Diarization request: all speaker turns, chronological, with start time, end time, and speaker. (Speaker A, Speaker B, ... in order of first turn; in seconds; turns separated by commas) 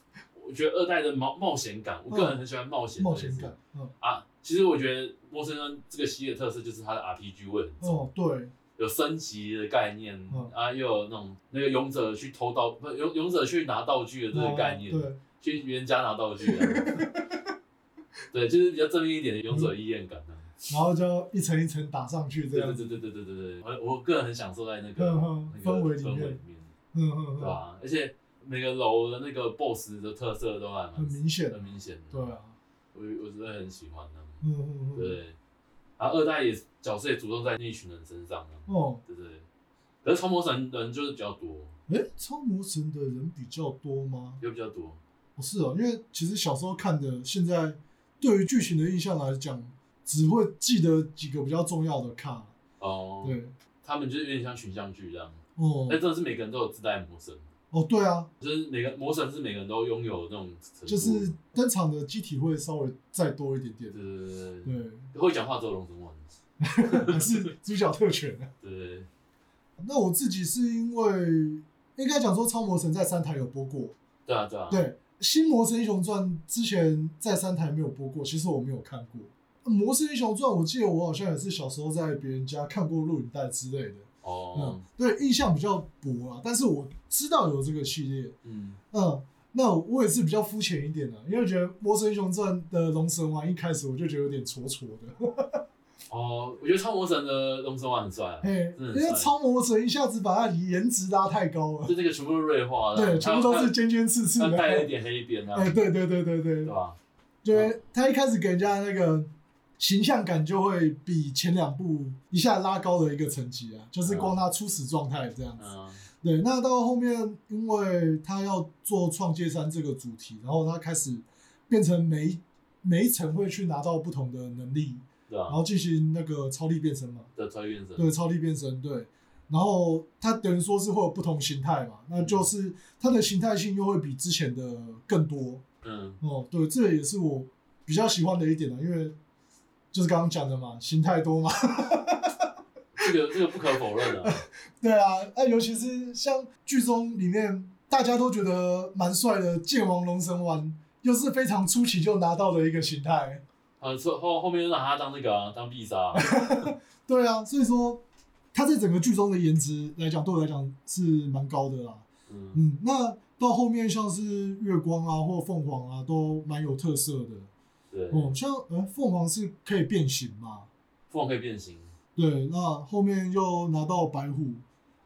Speaker A: 0.3-8.1, Speaker B: 2.1-2.4, Speaker B: 3.0-3.9, Speaker B: 7.8-8.5, Speaker A: 8.8-17.0, Speaker B: 14.3-15.2, Speaker B: 16.4-17.4, Speaker A: 18.3-20.6, Speaker B: 20.7-22.9, Speaker A: 22.5-26.7, Speaker B: 25.0-26.4, Speaker B: 26.9-27.6, Speaker A: 27.4-32.3, Speaker B: 30.9-32.6, Speaker A: 32.9-34.4, Speaker B: 34.4-35.2, Speaker A: 34.9-35.4, Speaker A: 36.0-39.5, Speaker B: 38.7-39.0, Speaker A: 40.0-41.7, Speaker B: 41.9-44.4, Speaker A: 44.4-45.0, Speaker B: 45.4-52.5, Speaker A: 52.8-57.5, Speaker B: 53.2-53.5, Speaker B: 55.6-56.0, Speaker B: 57.7-58.3, Speaker A: 58.4-61.4, Speaker B: 60.9-64.0, Speaker A: 63.9-66.2, Speaker B: 64.6-65.1, Speaker B: 66.6-68.5, Speaker A: 66.8-67.4, Speaker A: 68.6-69.1, Speaker B: 69.8-74.0, Speaker A: 74.2-74.9, Speaker B: 74.7-88.3, Speaker A: 84.2-84.8, Speaker A: 88.4-88.8, Speaker B: 88.9-95.6, Speaker A: 96.1-99.3, Speaker B: 98.4-101.9, Speaker A: 101.8-103.7, Speaker B: 102.9-104.9, Speaker A: 104.4-105.8, Speaker B: 105.5-106.7, Speaker A: 106.6-107.0, Speaker B: 107.4-115.7, Speaker A: 107.5-107.8, Speaker A: 114.0-114.4, Speaker A: 115.6-116.0, Speaker B: 116.2-127.3, Speaker A: 125.3-125.6, Speaker A: 127.3-128.1, Speaker B: 128.0-135.6, Speaker A: 132.2-132.5, Speaker A: 135.8-136.2, Speaker B: 136.2-139.1, Speaker B: 139.9-142.5, Speaker A: 142.9-144.4, Speaker B: 144.1-153.4, Speaker A: 153.8-156.4, Speaker B: 156.2-158.0, Speaker B: 158.5-167.5, Speaker A: 162.3-162.6, Speaker A: 167.9-168.3, Speaker B: 168.1-170.7, Speaker A: 171.1-171.9, Speaker B: 172.2-174.6